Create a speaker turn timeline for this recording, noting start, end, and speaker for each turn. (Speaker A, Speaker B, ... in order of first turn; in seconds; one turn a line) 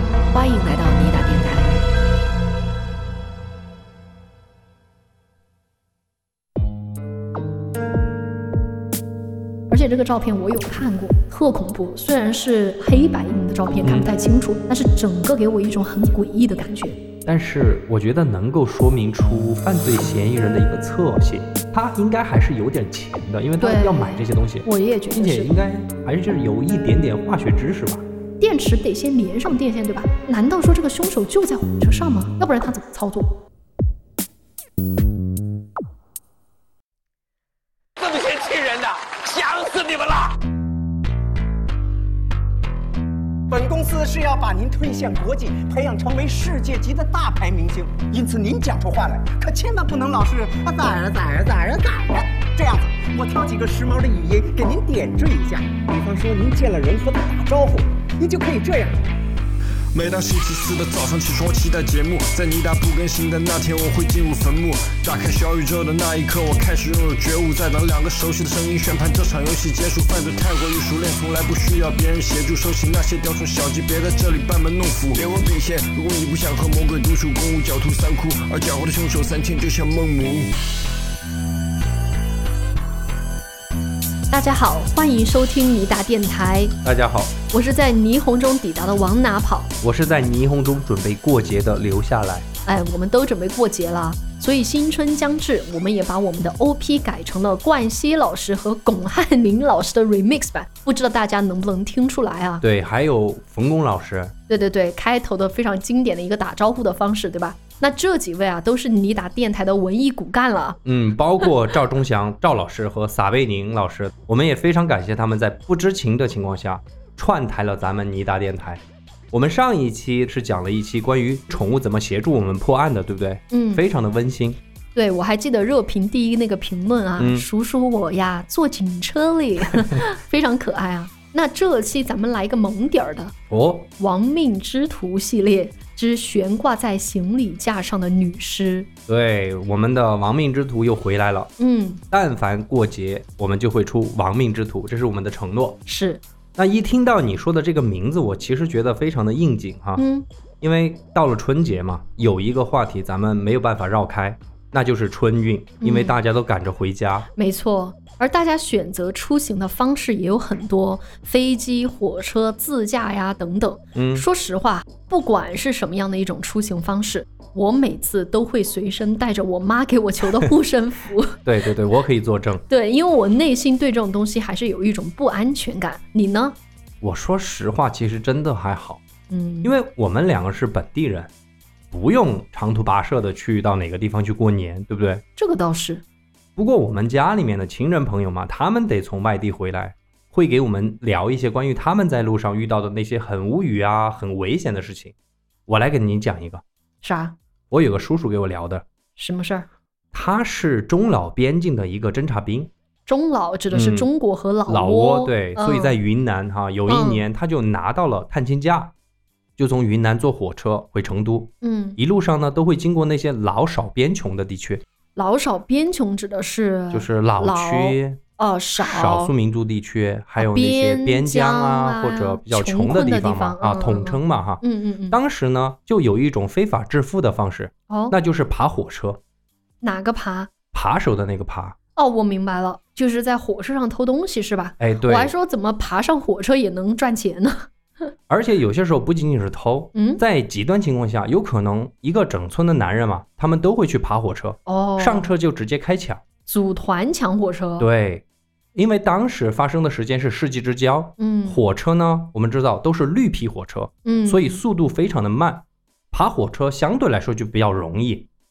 Speaker A: 0.3-1.8
Speaker A: 9.7-17.0
Speaker B: 13.8-14.1
Speaker B: 17.2-28.0
Speaker A: 23.6-25.6
Speaker A: 28.4-33.4
Speaker C: 38.0-40.4
Speaker D: 43.5-59.0
Speaker E: 59.9-80.5
Speaker A: 84.3-86.8
Speaker B: 86.8-87.3
Speaker A: 87.5-89.7
Speaker B: 89.8-92.5
Speaker A: 92.7-102.6
Speaker B: 102.6-104.3
Speaker A: 104.5-110.8
Speaker B: 110.8-124.6
Speaker A: 123.5-123.8
Speaker A: 125.0-133.3
Speaker B: 127.2-127.5
Speaker B: 133.5-133.9
Speaker A: 134.0-138.9
Speaker B: 139.1-141.5
Speaker A: 141.6-142.0
Speaker B: 142.1-145.8
Speaker A: 145.9-146.2
Speaker B: 146.6-150.0
Speaker A: 150.0-150.2
Speaker B: 150.6-157.3
Speaker A: 155.8-156.2
Speaker A: 157.4-171.4
Speaker B: 163.9-164.2
Speaker B: 171.4-172.6
Speaker A: 172.7-176.6
Speaker B: 177.0-179.0
Speaker A: 179.3-179.7
Speaker B: 179.6-181.3
Speaker B: 181.9-185.2
Speaker A: 185.4-186.0
Speaker B: 186.6-195.1
Speaker B: 195.7-196.6
Speaker A: 197.0-197.3
Speaker B: 197.7-198.8
Speaker A: 199.2-199.7
Speaker B: 200.1-202.7
Speaker A: 203.1-206.0
Speaker B: 203.7-204.1
Speaker B: 204.7-208.9
Speaker A: 206.9-207.2
Speaker B: 209.6-214.8
Speaker A: 211.6-212.0
Speaker A: 215.2-219.3
Speaker B: 216.9-218.2
Speaker B: 218.8-229.2
Speaker A: 220.4-225.2
Speaker A: 227.9-228.2
Speaker A: 229.8-230.5
Speaker B: 230.7-231.8
Speaker A: 231.9-238.1
Speaker B: 234.8-235.3
Speaker B: 238.3-246.2
Speaker A: 239.9-240.2
Speaker A: 244.7-245.3
Speaker A: 246.4-247.9
Speaker B: 247.8-248.2
Speaker B: 248.8-258.3
Speaker A: 251.2-251.6
Speaker A: 254.1-254.6